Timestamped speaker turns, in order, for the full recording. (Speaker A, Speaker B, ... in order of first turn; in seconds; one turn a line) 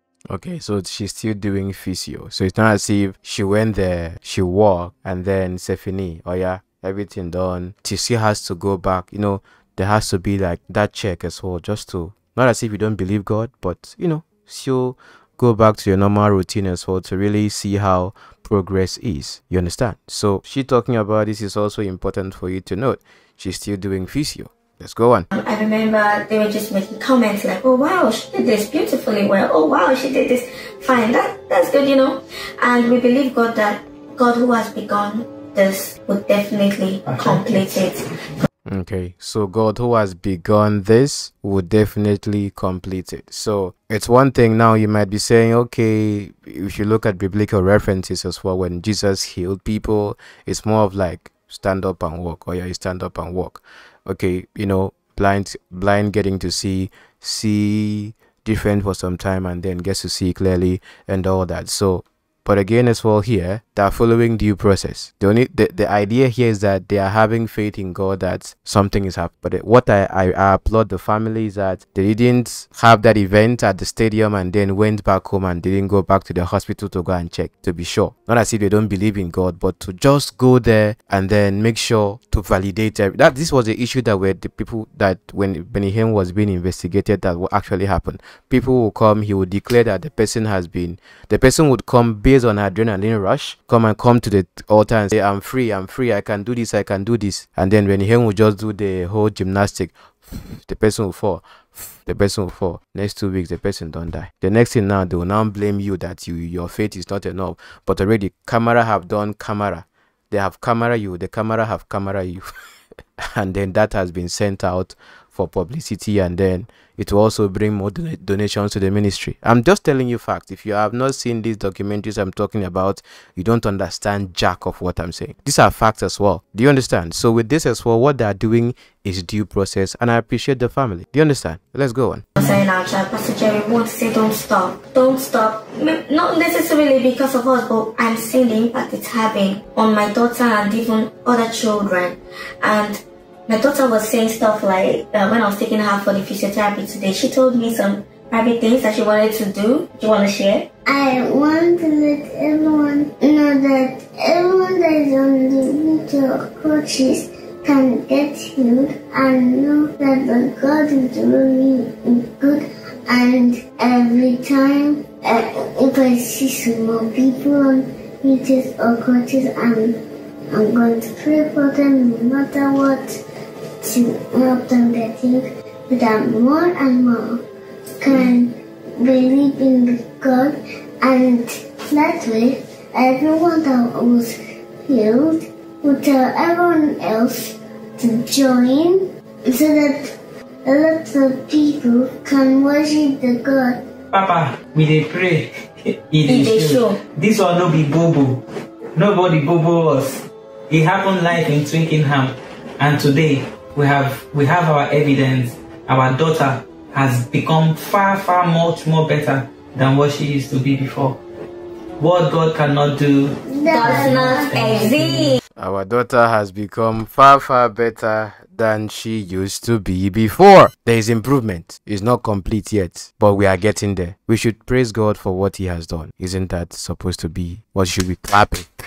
Speaker A: 0.3-25.2
Speaker B: 25.3-38.0
Speaker C: 37.0-38.0
Speaker A: 38.7-112.5
Speaker A: 113.2-132.2
Speaker B: 132.4-150.7
Speaker D: 150.8-170.0
Speaker D: 170.5-173.2
Speaker D: 173.8-177.4
Speaker D: 178.0-193.8
Speaker C: 194.1-198.4
Speaker B: 196.3-197.0
Speaker C: 198.9-211.2
Speaker C: 212.0-215.3
Speaker D: 213.4-214.9
Speaker B: 213.7-215.4
Speaker A: 215.6-228.7